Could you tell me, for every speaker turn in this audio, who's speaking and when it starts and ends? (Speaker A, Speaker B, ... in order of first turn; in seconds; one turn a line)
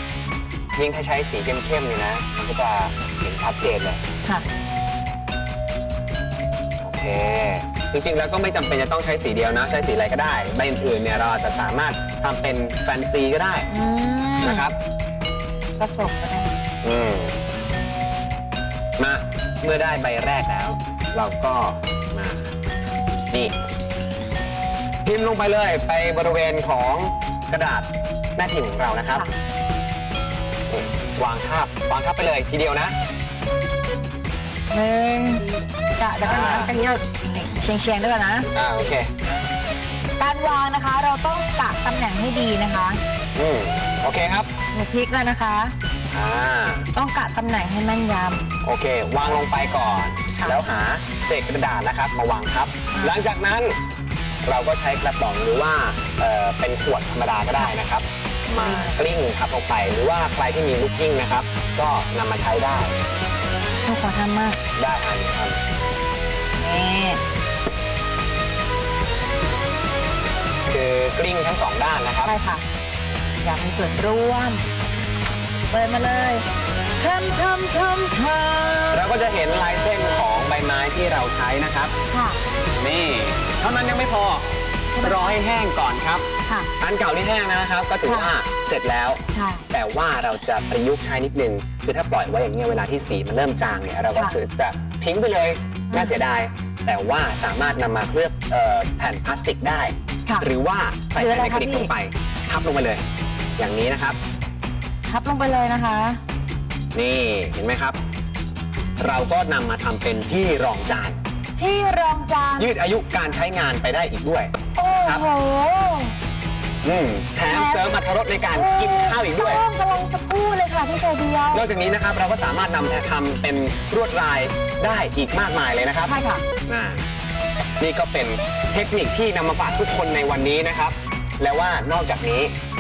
Speaker A: 0.7-4.0
Speaker A: 6.8-13.7
Speaker B: 13.7-14.7
Speaker A: 14.4-14.8
Speaker B: 15.8-16.5
Speaker A: 16.8-17.4
Speaker A: 19.0-22.5
Speaker A: 25.0-29.2
Speaker A: 30.7-33.0
Speaker B: 34.7-38.5
Speaker A: 36.2-36.7
Speaker A: 38.5-39.1
Speaker B: 40.2-43.0
Speaker A: 43.4-44.5
Speaker B: 44.7-45.7
Speaker A: 46.1-46.9
Speaker B: 46.9-48.5
Speaker A: 48.6-53.8
Speaker B: 50.3-50.6
Speaker B: 52.9-53.2
Speaker A: 54.4-63.0
Speaker B: 58.5-59.0
Speaker B: 63.8-64.6
Speaker A: 64.7-65.6
Speaker B: 66.6-67.2
Speaker A: 70.7-72.3
Speaker B: 72.2-72.6
Speaker B: 73.4-74.6
Speaker B: 75.7-76.5
Speaker B: 77.0-79.1
Speaker A: 78.9-81.9
Speaker B: 82.1-82.4
Speaker A: 82.8-84.5
Speaker B: 84.9-85.4
Speaker A: 85.0-86.3
Speaker A: 86.8-103.0
Speaker B: 88.0-88.3
Speaker B: 89.3-89.7
Speaker B: 95.9-96.2
Speaker B: 101.2-101.9
Speaker A: 103.6-104.2
Speaker B: 105.1-106.2
Speaker A: 106.9-108.0
Speaker A: 109.0-111.2
Speaker B: 111.6-112.7
Speaker A: 112.6-114.5
Speaker B: 114.7-116.1
Speaker A: 116.8-119.6
Speaker B: 117.5-117.9
Speaker B: 118.5-121.7
Speaker A: 121.5-126.1
Speaker B: 126.0-126.4
Speaker A: 126.7-127.0
Speaker A: 127.8-132.5